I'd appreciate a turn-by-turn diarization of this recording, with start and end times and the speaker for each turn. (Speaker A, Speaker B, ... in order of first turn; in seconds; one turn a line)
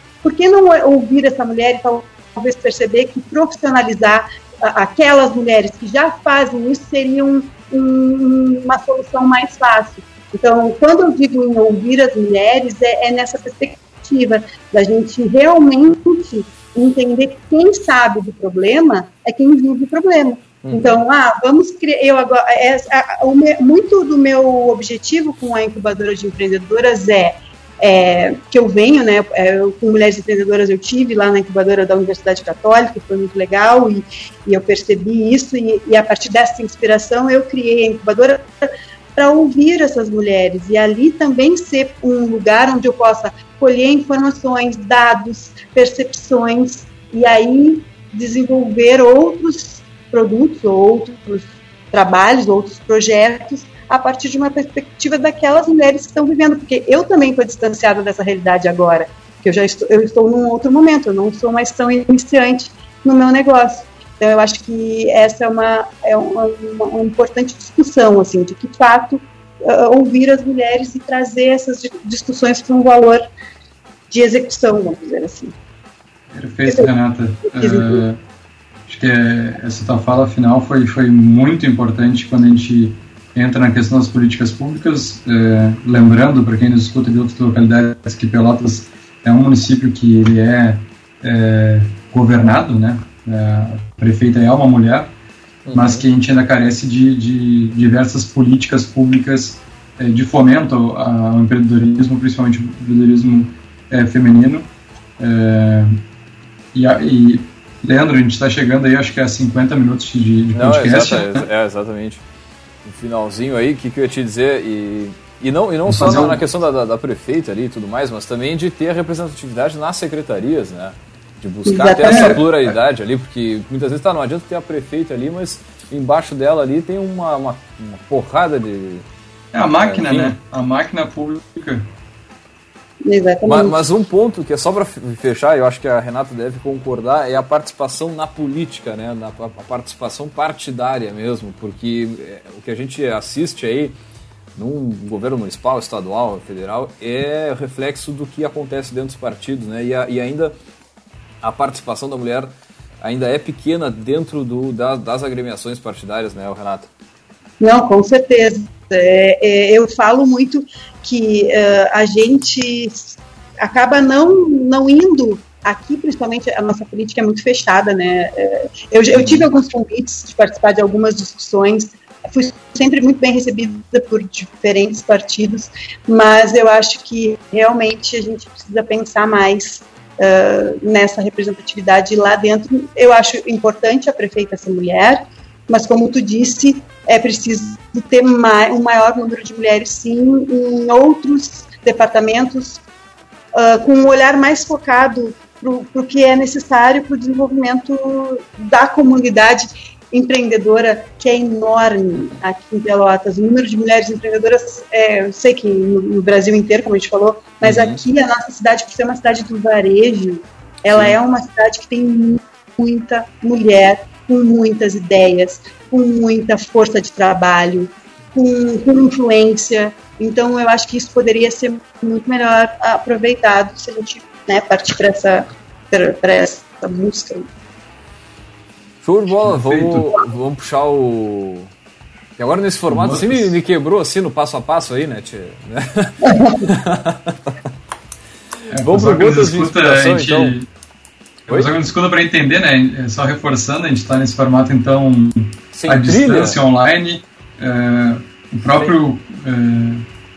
Speaker A: 0.2-73.2
Speaker B: 20.6-21.0
Speaker A: 74.1-75.5
Speaker C: 76.3-78.2
Speaker A: 77.5-78.0
Speaker C: 78.9-95.1
Speaker B: 95.7-96.0
Speaker C: 95.7-104.7
Speaker C: 105.2-106.0
Speaker C: 106.7-111.5
Speaker B: 110.5-112.2
Speaker B: 112.8-129.1
Speaker C: 115.9-116.4
Speaker A: 121.7-122.4
Speaker C: 122.0-122.7
Speaker C: 129.5-131.8
Speaker B: 129.8-130.3
Speaker A: 133.0-133.8
Speaker B: 133.4-143.9
Speaker B: 144.6-150.5
Speaker B: 151.4-156.9
Speaker A: 157.6-192.8
Speaker B: 169.2-169.4
Speaker A: 193.5-227.5
Speaker B: 207.6-208.0
Speaker B: 210.9-211.1
Speaker B: 229.0-231.7
Speaker C: 229.4-230.1
Speaker B: 232.4-237.6
Speaker C: 232.9-233.5
Speaker A: 236.2-236.7
Speaker C: 238.7-240.7
Speaker B: 238.8-240.5
Speaker B: 241.5-241.7
Speaker C: 241.5-250.0
Speaker B: 245.7-246.6
Speaker B: 248.7-248.9